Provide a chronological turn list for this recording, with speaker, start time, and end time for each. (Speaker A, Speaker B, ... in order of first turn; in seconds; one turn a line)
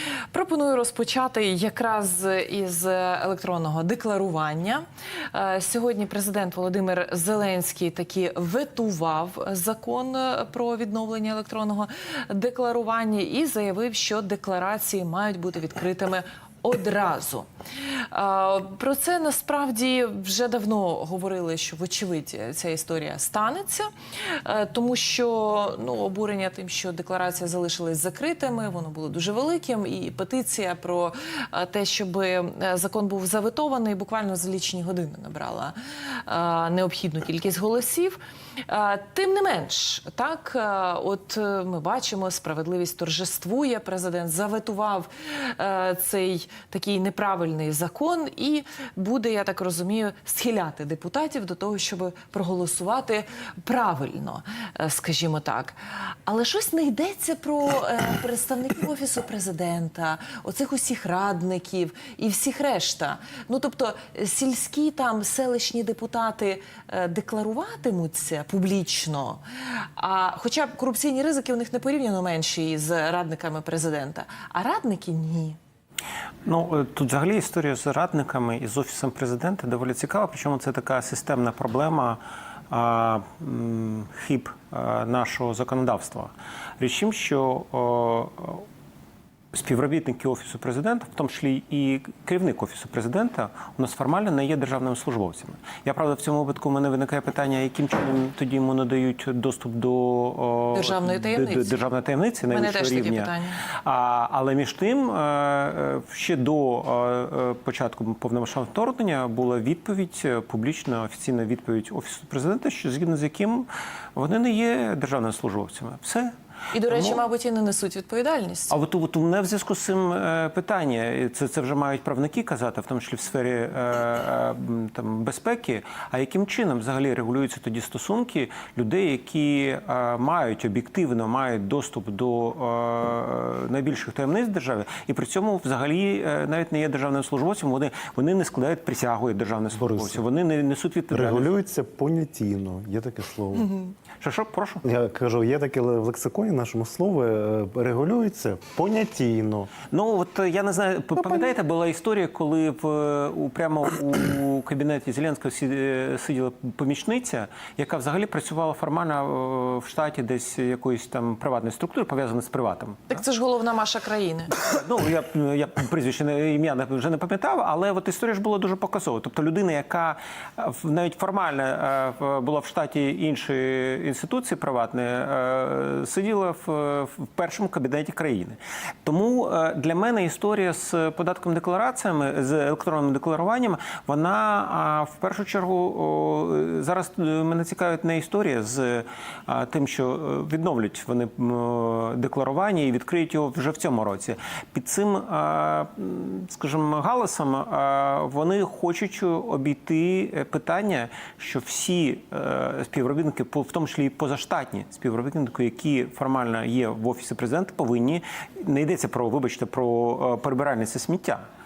Speaker A: 0.3-17.5
Speaker A: 18.1-38.2
Speaker A: 38.7-69.4
Speaker A: 70.0-75.6
Speaker B: 76.4-88.6
Speaker B: 89.5-103.3
Speaker A: 100.7-101.7
Speaker A: 102.5-103.6
Speaker B: 103.8-116.3
Speaker A: 116.7-118.7
Speaker B: 116.8-117.2
Speaker B: 118.7-141.5
Speaker C: 139.7-140.2
Speaker C: 141.1-143.7
Speaker B: 144.2-144.8
Speaker C: 144.8-149.7
Speaker B: 149.9-163.2
Speaker A: 163.1-164.5
Speaker B: 164.6-211.4